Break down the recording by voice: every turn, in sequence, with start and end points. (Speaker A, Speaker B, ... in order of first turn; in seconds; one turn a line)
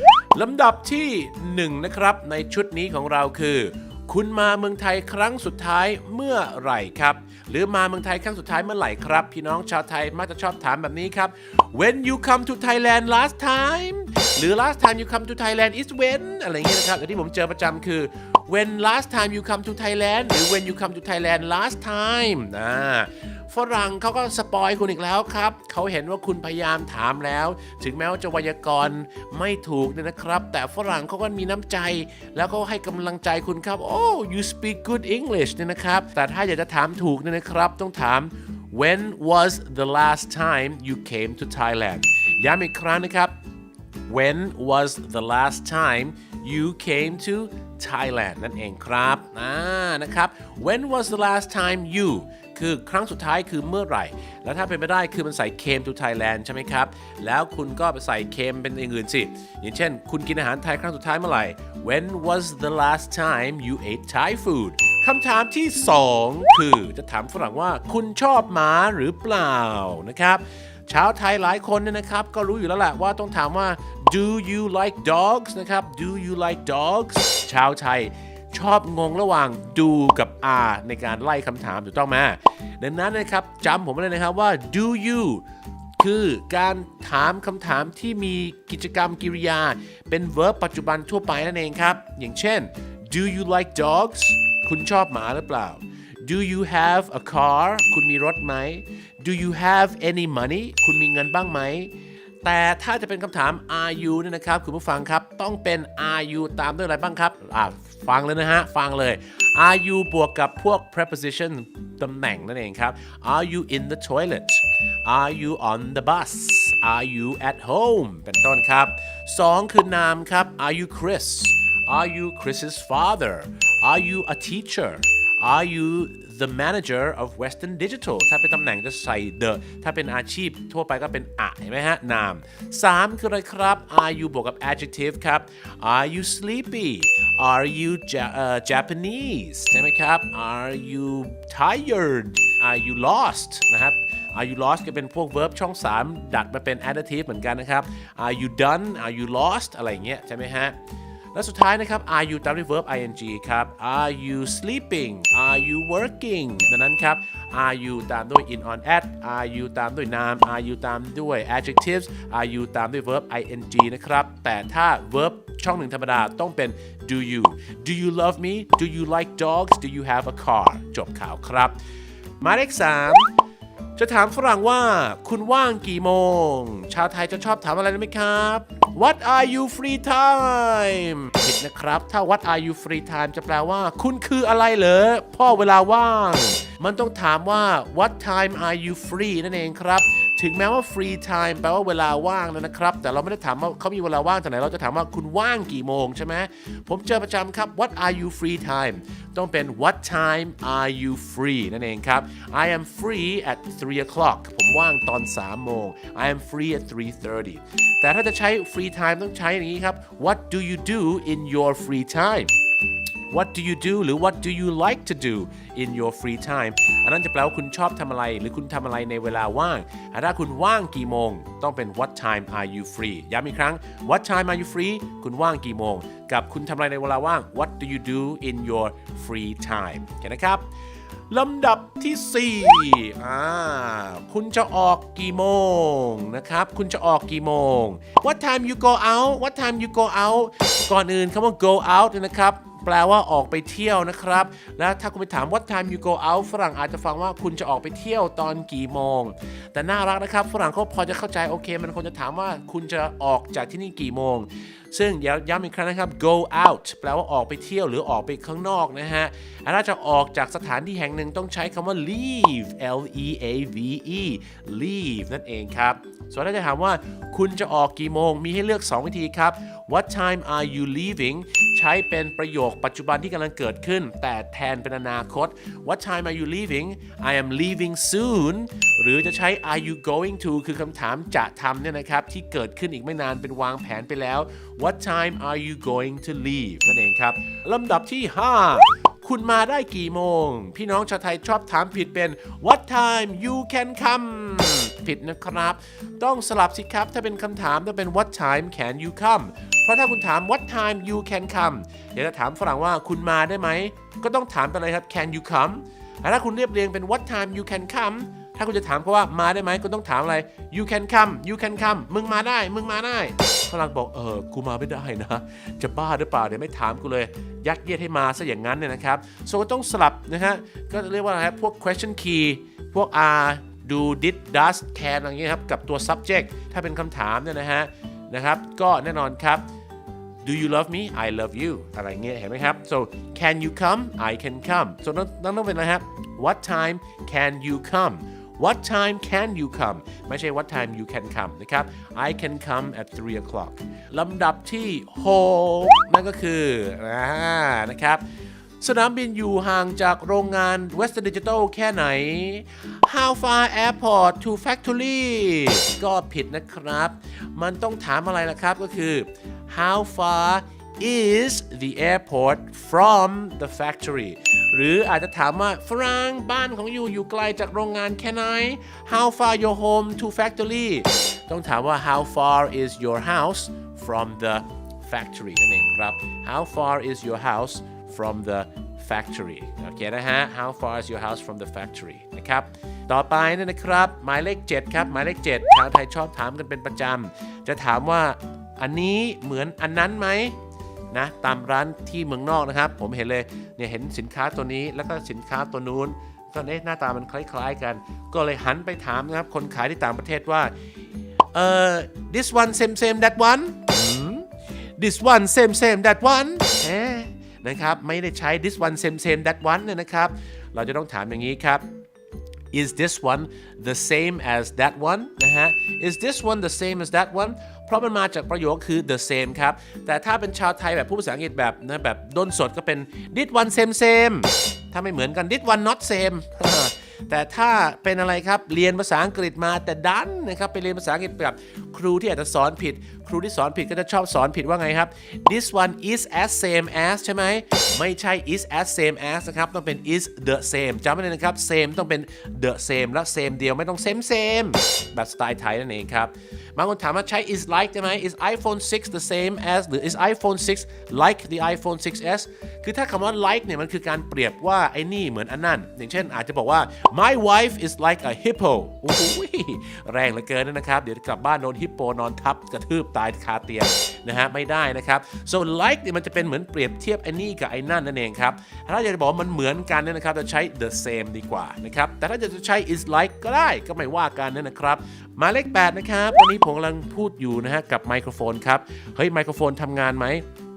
Speaker A: 0.3-43.3
Speaker A: 44.1-85.4
Speaker A: 86.0-101.9
Speaker A: 102.4-150.8
Speaker A: 151.3-171.8
Speaker A: 172.4-173.3
Speaker A: 173.9-212.6
Speaker A: 213.3-230.7
Speaker A: 231.3-329.7
Speaker A: 330.4-348.2
Speaker A: 348.8-390.6
Speaker A: 391.1-400.7
Speaker A: 401.5-411.8
Speaker A: 412.7-480.4